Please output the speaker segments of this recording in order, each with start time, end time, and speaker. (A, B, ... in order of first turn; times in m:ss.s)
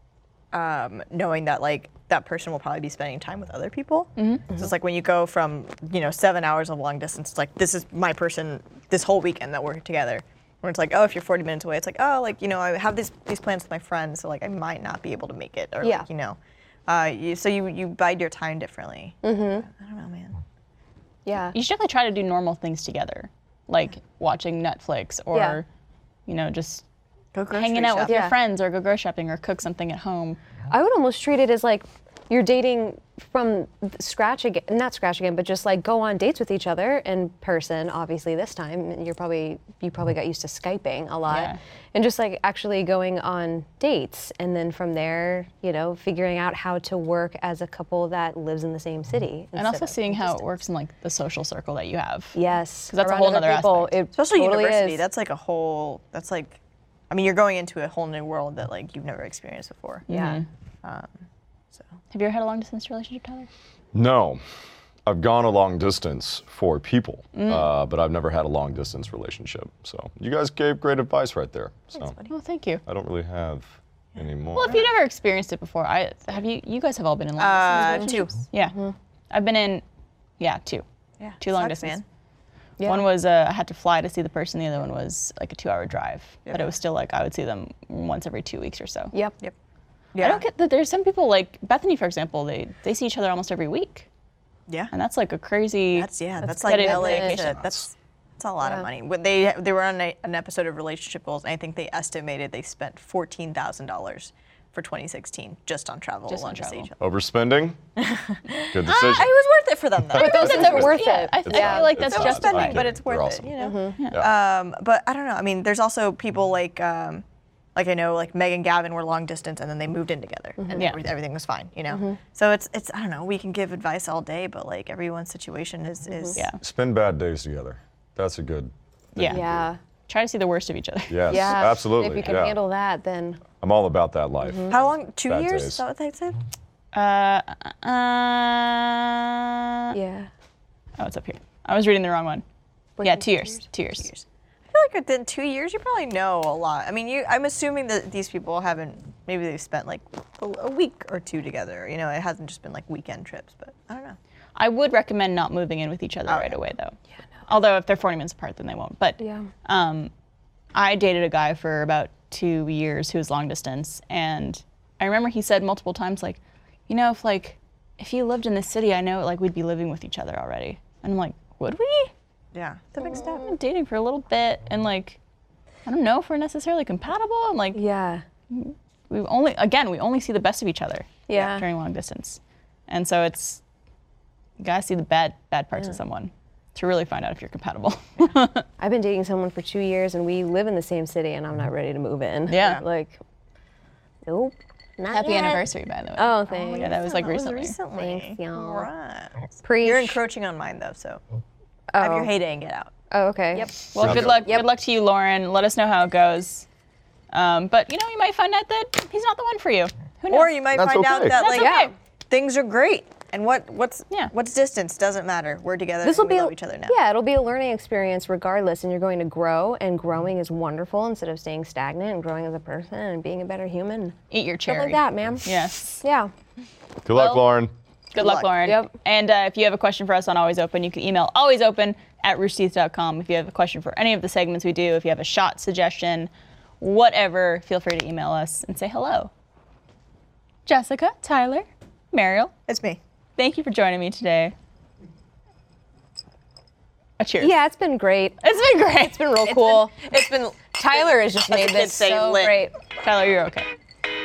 0:00.5-0:20.4 A
0:04.2-0:04.4 B
0:15.8-0:16.1 C
0:19.2-0:19.6 C
0:21.2-0:21.5 C
0:21.5-0:25.6 B
0:25.3-0:25.6 C
0:26.3-0:26.8 B
0:27.3-0:28.2 A
0:27.5-0:30.4 B
0:28.0-0:28.3 C
0:30.7-0:50.5 C
0:41.3-0:41.6 B
0:49.6-0:54.0 B
0:52.3-0:55.0 C
0:54.1-0:56.6 A
0:57.1-1:00.0 A
1:00.1-1:00.4 C
1:00.1-1:00.4 B
1:00.8-1:01.1 A
1:02.1-1:03.5 B
1:03.9-1:04.4 D
1:05.0-1:12.1 D
1:07.3-1:07.7 B
1:12.0-1:12.3 A
1:12.3-1:12.8 B
1:12.8-1:14.8 D
1:14.5-1:18.8 B
1:17.4-1:18.4 A
1:17.8-1:18.2 C
1:19.3-1:19.8 B
1:20.4-1:20.8 B
1:21.2-1:22.0 A
1:21.4-1:22.0 B
1:22.8-1:23.1 C
1:22.8-1:29.1 B
1:26.4-1:26.7 A
1:30.1-1:30.4 A
1:30.2-1:34.1 B
1:34.9-1:37.6 B
1:35.9-1:47.0 A
1:36.6-1:37.5 C
1:38.6-1:38.9 C
1:46.3-1:46.7 B
1:46.4-1:46.9 C
1:47.0-1:47.8 D
1:48.0-1:50.8 A
1:48.7-1:49.3 D
1:50.1-1:53.5 D
1:50.1-1:51.9 C
1:50.2-1:52.9 B
1:51.6-1:57.2 A
1:53.6-1:54.0 C
1:54.0-1:54.2 B
1:57.7-2:06.4 A
2:00.6-2:00.9 C
2:01.9-2:02.2 C
2:06.6-2:09.5 D
2:09.1-2:09.4 B
2:09.2-2:09.8 C
2:10.1-2:11.7 B
2:11.1-2:12.6 D
2:11.3-2:13.4 C
2:13.6-2:15.8 D
2:14.4-2:14.7 C
2:14.7-2:16.4 A
2:16.9-2:20.0 B
2:19.9-2:20.3 C
2:21.0-2:22.4 B
2:23.0-2:23.6 C
2:23.0-2:24.1 B
2:24.0-2:34.2 A
2:34.6-2:37.0 B
2:36.3-2:36.5 A
2:37.5-2:40.1 B
2:39.2-2:39.5 C
2:40.7-2:52.1 B
2:52.5-2:53.5 A
2:53.1-2:55.2 B
2:55.8-2:57.8 B
2:57.7-2:58.2 C
2:58.5-3:03.6 B
3:01.3-3:01.6 C
3:04.6-3:08.6 B
3:08.8-3:13.2 C
3:12.5-3:12.8 B
3:14.3-3:15.6 C
3:15.1-3:17.8 B
3:16.2-3:17.1 C
3:16.7-3:21.2 A
3:17.9-3:18.9 C
3:19.6-3:20.2 C
3:21.9-3:22.3 C
3:22.0-3:22.9 A
3:23.1-3:24.6 C
3:23.8-3:26.6 B
3:24.0-3:24.6 D
3:27.3-3:30.6 B
3:30.3-3:37.0 A
3:30.7-3:31.4 D
3:31.3-3:31.9 B
3:31.5-3:31.9 C
3:36.0-3:46.3 C
3:44.3-3:46.0 B
3:47.0-3:47.7 D
3:47.1-3:47.4 B
3:48.1-3:56.3 B
3:48.2-3:48.5 A
3:48.6-3:48.9 C
3:56.8-3:59.3 B
4:00.6-4:02.5 B
4:02.7-4:03.0 A
4:03.4-4:04.5 B
4:07.2-4:07.6 B
4:07.4-4:08.4 C
4:08.4-4:10.2 B
4:09.4-4:12.7 C
4:11.4-4:12.6 A
4:13.0-4:13.7 B